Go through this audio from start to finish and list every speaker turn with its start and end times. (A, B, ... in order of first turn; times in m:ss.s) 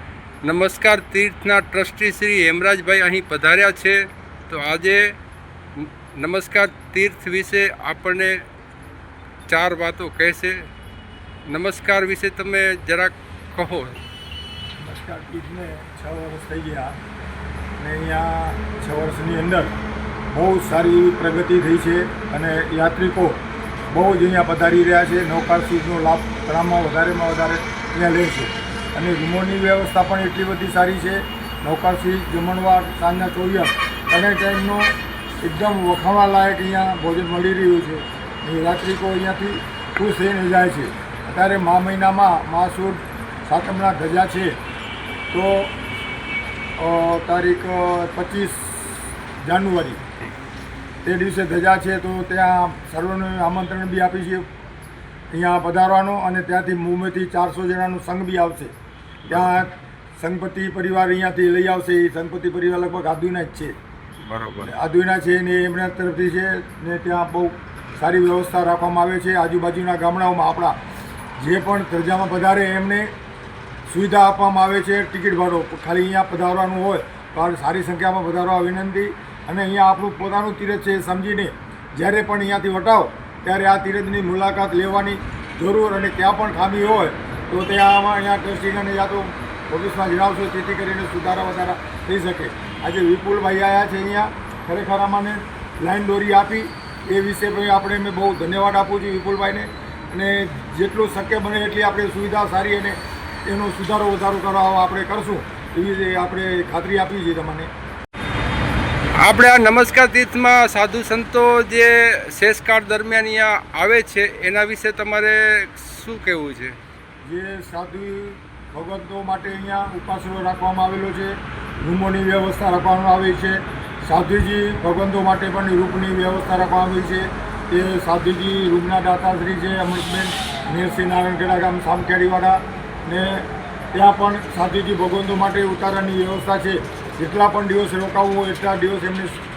0:00.4-0:05.2 A
0:05.8-0:08.4 A
0:09.5-0:10.6 A
0:11.5-0:14.0 A
0:14.8-0:17.0 B
0:17.8-0:19.7 B
0:20.3-0:23.4 B
0:23.9-0:44.6 B
0:45.3-0:45.7 B
0:46.8-0:50.0 B
0:51.0-0:54.5 B
0:55.3-0:58.7 B
0:59.3-0:59.6 A
0:59.3-1:03.7 B
1:04.2-1:04.7 A
1:04.6-1:10.8 B
1:11.4-1:13.1 B
1:13.9-1:47.7 B
1:49.2-1:56.7 A
1:57.2-2:19.4 B